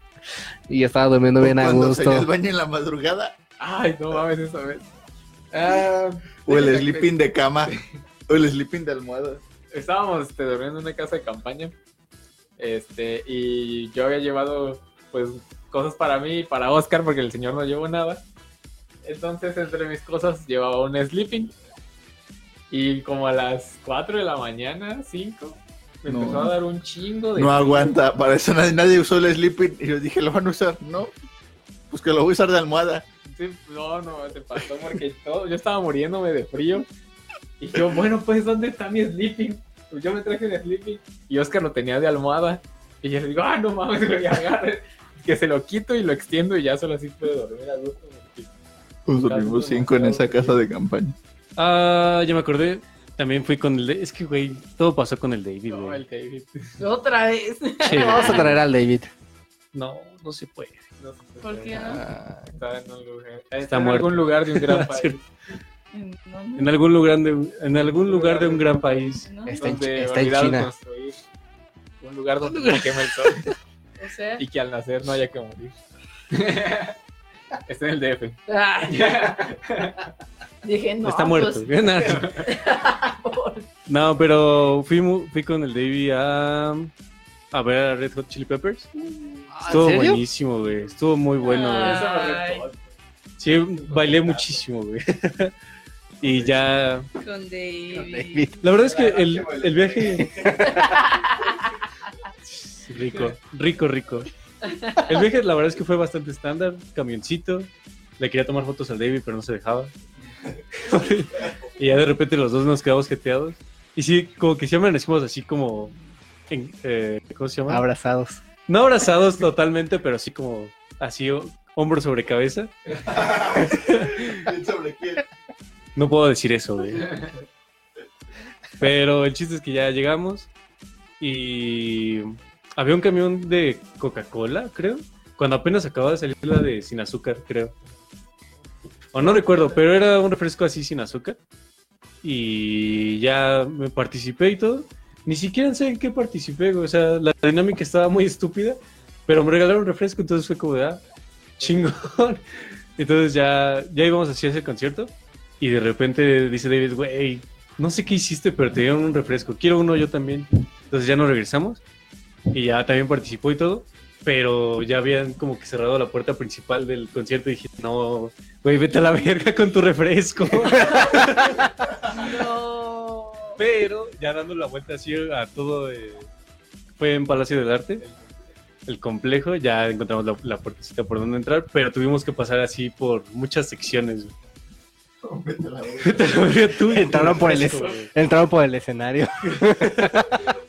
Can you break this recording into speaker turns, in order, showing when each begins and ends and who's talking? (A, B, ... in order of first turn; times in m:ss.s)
0:00.7-0:02.3 A
0:01.4-0:03.3 B
0:03.6-0:04.8 C
0:05.5-0:07.8 C
0:06.4-0:07.7 B
0:08.3-0:09.4 B
0:09.7-0:11.7 C
0:12.6-0:18.2 C
0:19.0-0:21.5 C
0:22.7-0:28.0 C
0:26.1-0:26.5 B
0:27.4-0:31.1 B
0:31.9-0:33.0 B
0:33.3-0:36.9 C
0:37.6-0:48.5 C
0:49.1-0:51.1 B
0:49.1-0:50.6 C
0:51.6-0:56.0 D
0:55.7-0:56.6 C
0:56.8-0:58.6 E
0:57.8-0:58.5 D
0:57.9-0:59.1 A
0:59.7-1:00.8 D
1:01.0-1:05.2 C
1:01.4-1:02.0 E
1:01.7-1:02.4 A
1:03.7-1:05.2 D
1:05.9-1:06.7 E
1:06.6-1:09.3 D
1:08.0-1:08.7 C
1:09.2-1:09.6 E
1:09.5-1:10.7 A
1:09.5-1:11.2 C
1:12.0-1:13.5 C
1:12.5-1:14.4 E
1:14.4-1:15.8 C
1:16.3-1:16.9 C
1:17.6-1:20.0 C
1:18.5-1:19.4 E
1:20.6-1:23.7 E
1:21.0-1:22.4 D
1:22.0-1:22.4 C
1:23.9-1:26.9 D
1:27.5-1:28.9 D
1:29.5-1:30.2 A
1:29.7-1:32.0 D
1:31.4-1:32.7 E
1:31.6-1:32.8 C
1:33.4-1:35.5 D
1:33.4-1:34.6 C
1:36.2-1:37.1 D
1:37.1-1:38.5 E
1:37.9-1:38.6 A
1:38.6-1:40.3 D
1:38.7-1:40.5 B
1:40.2-1:41.0 A
1:40.7-1:41.8 E
1:42.5-1:44.3 D
1:44.6-1:45.0 E
1:45.0-1:49.9 D
1:50.8-1:55.9 D
1:56.5-1:57.8 D
1:57.7-1:58.4 A
1:58.7-2:04.4 D
2:03.0-2:05.2 B
2:06.0-2:07.2 D
2:08.8-2:10.5 D
2:11.2-2:17.7 D
2:19.1-2:21.4 D
2:19.2-2:19.8 E
2:22.2-2:31.0 D
2:31.6-2:32.4 D
2:33.0-2:41.8 D
2:42.5-2:52.4 D
2:52.2-2:53.6 E
2:53.6-2:56.3 D
2:57.0-2:58.0 D
2:58.8-3:04.3 D
3:05.2-3:06.6 B
3:06.0-3:08.1 D
3:06.9-3:10.5 A
3:09.5-3:10.2 D